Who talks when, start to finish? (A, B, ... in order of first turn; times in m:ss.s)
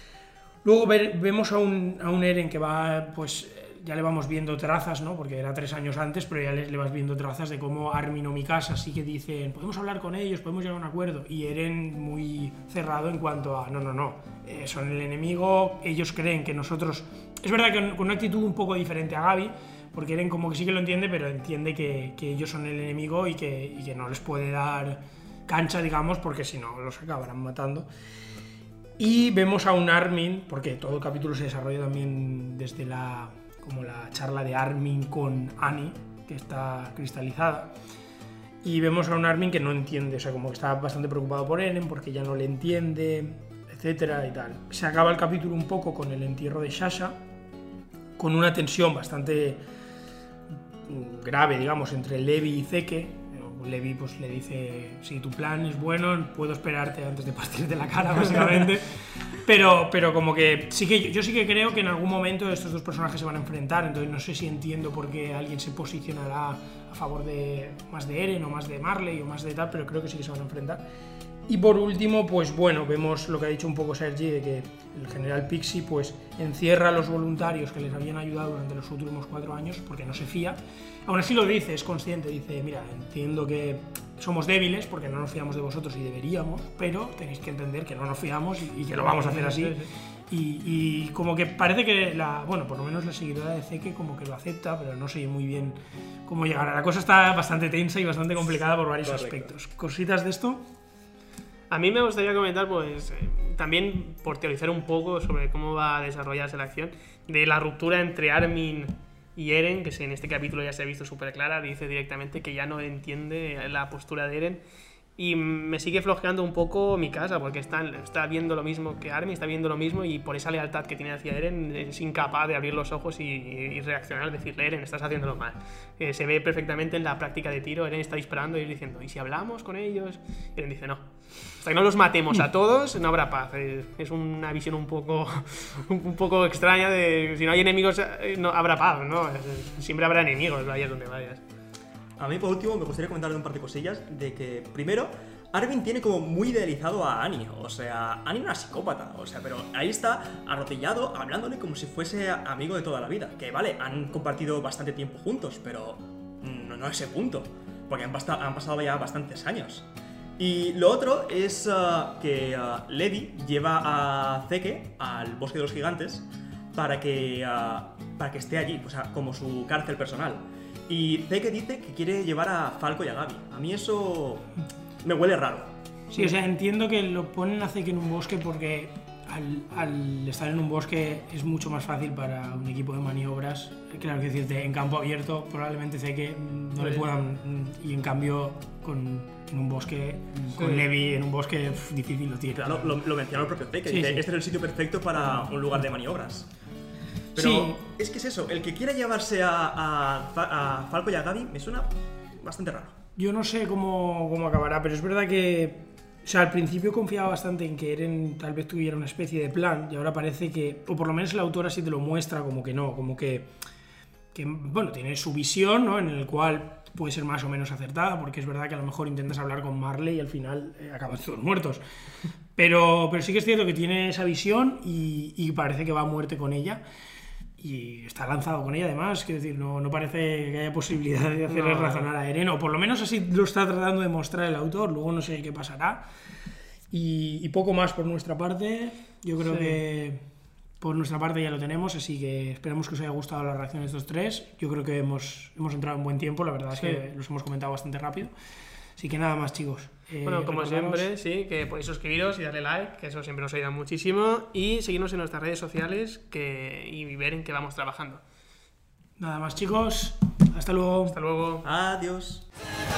0:00.6-0:27.9 A
0:29.0-0:37.7 A
0:38.6-0:47.2 A
0:48.2-0:49.6 A
0:50.8-1:10.9 A
1:11.5-1:40.6 A
1:28.9-1:29.9 B
1:39.0-1:39.5 C
1:41.7-1:54.6 B
1:55.2-2:11.0 B
2:11.6-2:21.4 B
2:22.2-2:39.9 C
2:40.4-2:54.5 C
2:55.0-2:55.7 C
2:56.1-3:13.0 A
3:06.8-3:07.0 B
3:10.6-3:10.8 B
3:12.6-3:16.5 C
3:13.8-3:14.3 A
3:17.3-3:22.9 C
3:17.4-3:17.8 A
3:23.2-3:33.5 A
3:34.3-3:41.8 A
3:42.6-3:46.8 A
3:47.6-3:56.0 A
3:51.5-3:52.1 B
3:56.9-4:00.2 A
3:59.5-3:59.8 B
4:00.8-4:08.3 A
4:06.7-4:07.0 B
4:09.0-4:11.1 A
4:10.2-4:18.2 B
4:19.2-4:21.2 A
4:21.0-4:21.6 B
4:21.6-4:22.4 C